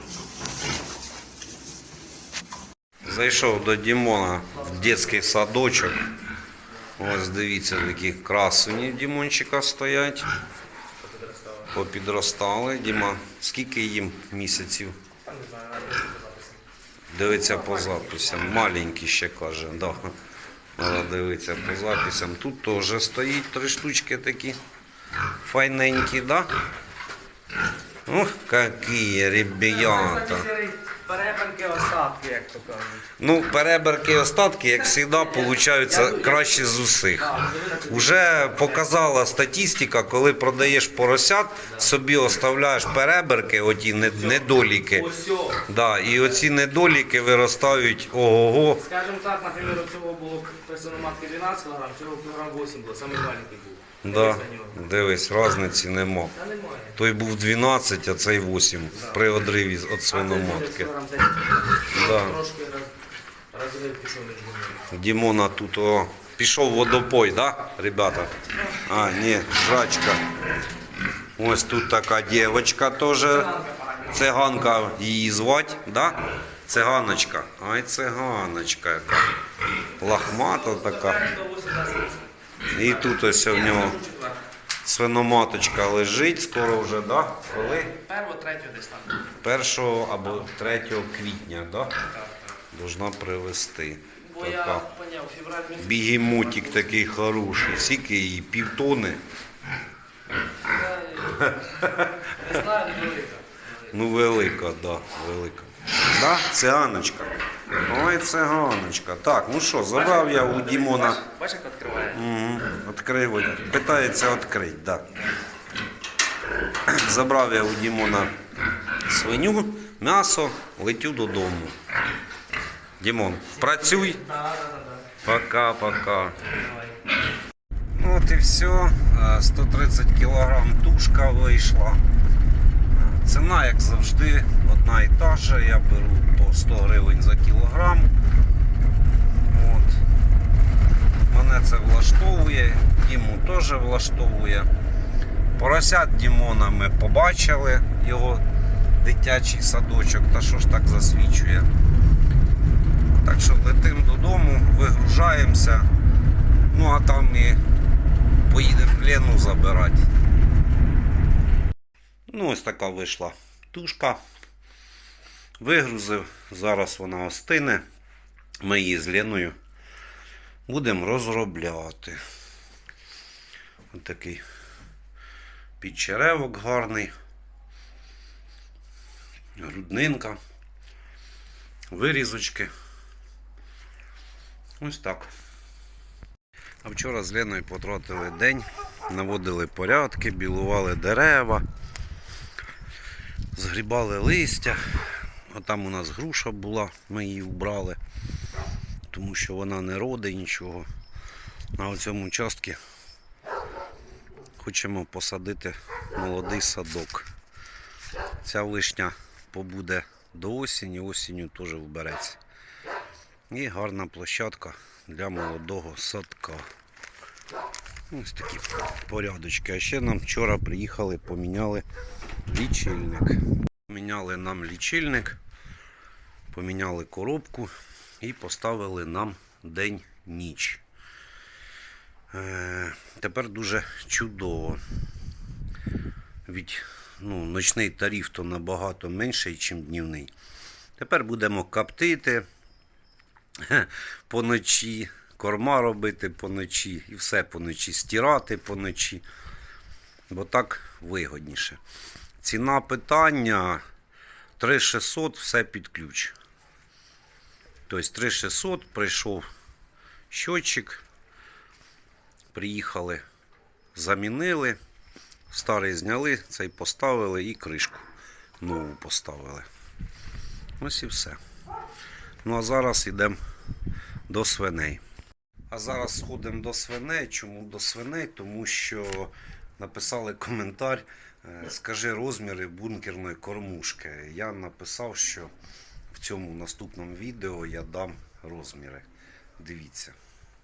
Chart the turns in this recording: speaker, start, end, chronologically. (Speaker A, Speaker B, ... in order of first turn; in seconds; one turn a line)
Speaker A: 3.0-6.1
Speaker A: 7.0-10.3
Speaker B: 11.0-11.7
Speaker A: 11.7-15.0
Speaker B: 15.3-16.6
Speaker A: 17.1-20.1
Speaker B: 17.3-18.5
Speaker A: 20.8-24.6
Speaker A: 25.4-26.5
Speaker A: 28.1-30.5
Speaker B: 29.7-33.1
Speaker A: 33.2-48.8
Speaker B: 35.4-38.8
Speaker B: 44.2-45.6
Speaker B: 48.8-54.8
Speaker A: 54.0-56.4
Speaker B: 56.4-57.0
Speaker A: 57.0-60.9
Speaker B: 60.1-62.9
Speaker A: 61.9-62.4
Speaker B: 63.5-64.9
Speaker A: 64.9-70.2
Speaker A: 71.4-73.5
Speaker B: 73.3-74.2
Speaker A: 74.0-79.3
Speaker A: 80.0-81.2
Speaker B: 80.0-82.3
Speaker A: 82.7-84.0
Speaker B: 83.1-84.4
Speaker A: 84.8-88.0
Speaker B: 87.8-89.3
Speaker A: 89.4-92.0
Speaker A: 92.7-94.9
Speaker B: 94.2-96.6
Speaker A: 95.8-99.2
Speaker B: 100.7-103.7
Speaker A: 101.8-102.1
Speaker A: 103.9-111.2
Speaker B: 110.1-112.2
Speaker A: 112.1-115.2
Speaker A: 116.8-118.3
Speaker A: 119.0-121.8
Speaker A: 123.0-124.2
Speaker B: 123.7-125.0
Speaker A: 125.2-126.5
Speaker A: 127.9-132.0
Speaker A: 132.9-138.1
Speaker A: 139.4-140.0
Speaker A: 141.3-144.7
Speaker A: 145.6-148.4
Speaker A: 149.0-151.7
Speaker A: 153.2-155.9
Speaker A: 156.7-157.6
Speaker A: 158.5-160.1
Speaker A: 162.3-164.2
Speaker A: 165.6-167.8
Speaker A: 168.6-169.6
Speaker A: 170.7-172.2
Speaker A: 173.9-174.4
Speaker A: 175.8-177.1
Speaker A: 179.6-180.4
Speaker A: 181.9-182.7
Speaker A: 184.8-185.3
Speaker A: 186.8-191.7
Speaker A: 193.6-194.8
Speaker A: 195.5-198.0
Speaker A: 199.1-200.9
Speaker A: 201.8-202.8
Speaker A: 204.6-207.3
Speaker A: 208.4-212.4
Speaker A: 213.5-216.7
Speaker A: 218.1-221.8
Speaker A: 222.5-225.4
Speaker A: 226.5-230.8
Speaker A: 232.3-234.8
Speaker A: 236.5-240.3
Speaker A: 241.0-242.4
Speaker A: 243.6-249.2
Speaker A: 250.3-251.8
Speaker A: 252.4-253.8
Speaker A: 254.6-256.4
Speaker A: 257.9-259.5
Speaker A: 260.3-261.0
Speaker A: 262.5-263.2
Speaker A: 263.9-264.8
Speaker A: 265.5-268.1
Speaker A: 268.6-269.7
Speaker A: 270.8-271.4
Speaker A: 272.4-273.4
Speaker A: 274.3-275.0
Speaker A: 275.7-285.5
Speaker A: 286.1-289.1
Speaker A: 289.6-290.1